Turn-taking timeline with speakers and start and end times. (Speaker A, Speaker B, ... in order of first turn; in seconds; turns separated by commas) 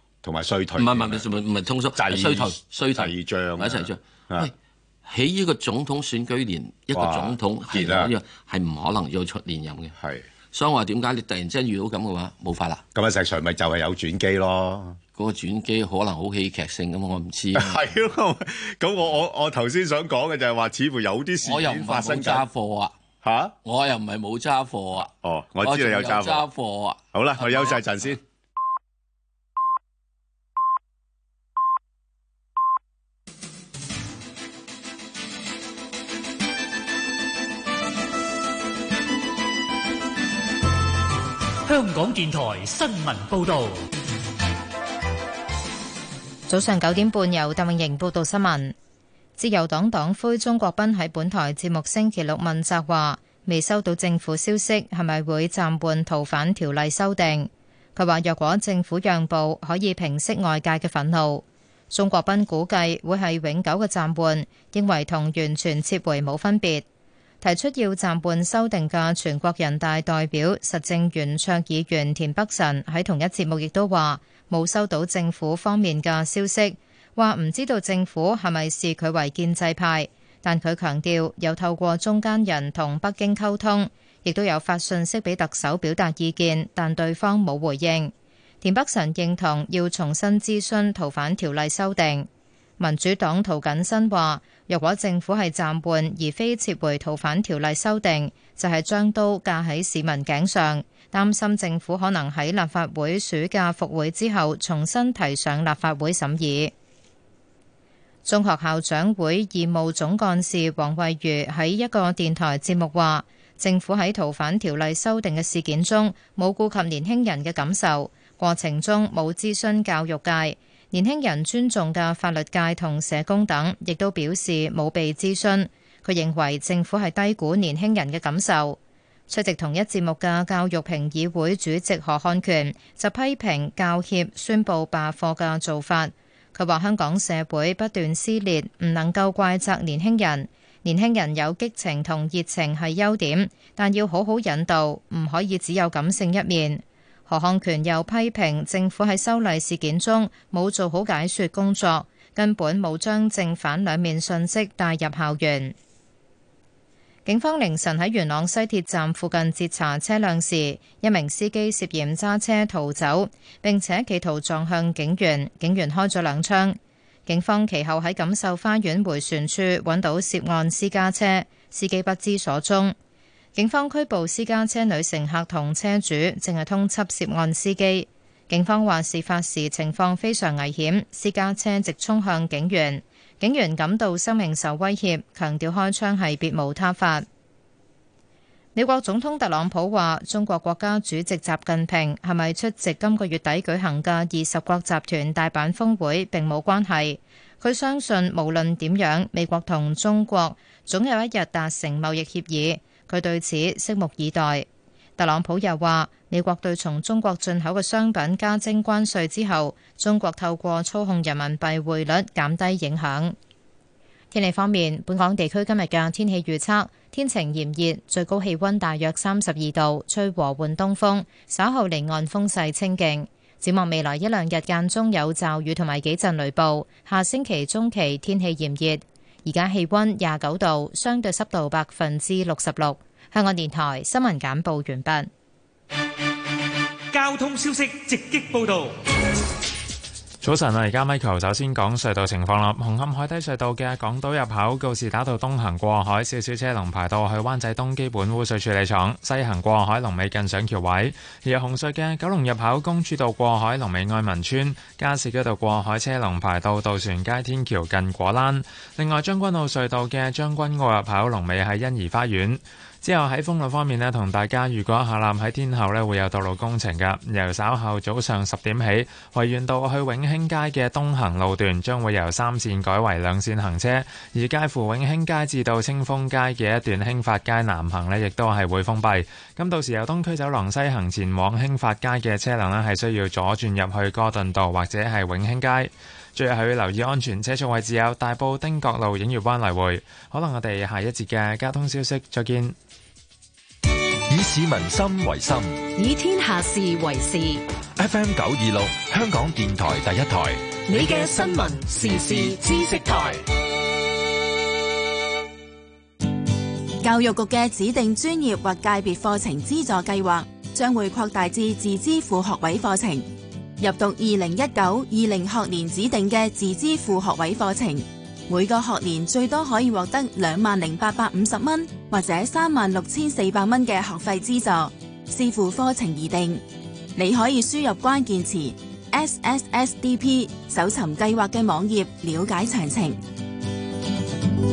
Speaker A: 0.2-1.2, Speaker B: 0.8-4.5, Speaker A: 2.0-4.5, Speaker B: 5.0-9.9, Speaker A: 6.9-8.1, Speaker A: 10.0-10.2, Speaker B: 10.5-12.8, Speaker A: 12.9-15.0, Speaker B: 15.2-17.8, Speaker A: 17.5-22.4, Speaker B: 21.4-22.9, Speaker A: 23.2-23.5, Speaker B: 23.6-25.1, Speaker A: 25.1-26.4, Speaker B: 25.6-27.8, Speaker A: 27.1-28.2, Speaker C: 41.6-43.9, Speaker D: 46.5-48.7, Speaker D: 49.4-66.8, Speaker D: 67.4-92.3, Speaker D: 92.8-106.7, Speaker D: 108.2-155.7, Speaker D: 157.2-172.9, Speaker D: 173.5-187.2, Speaker D: 188.7-204.7, Speaker D: 205.2-213.3, Speaker D: 214.3-235.3, Speaker C: 237.1-239.0, Speaker E: 240.4-292.7, Speaker F: 294.3-295.8, Speaker G: 295.9-297.6, Speaker F: 298.0-300.6, Speaker G: 300.9-303.4, Speaker H: 307.0-313.2, Speaker H: 313.8-326.6, Speaker H: 327.1-333.2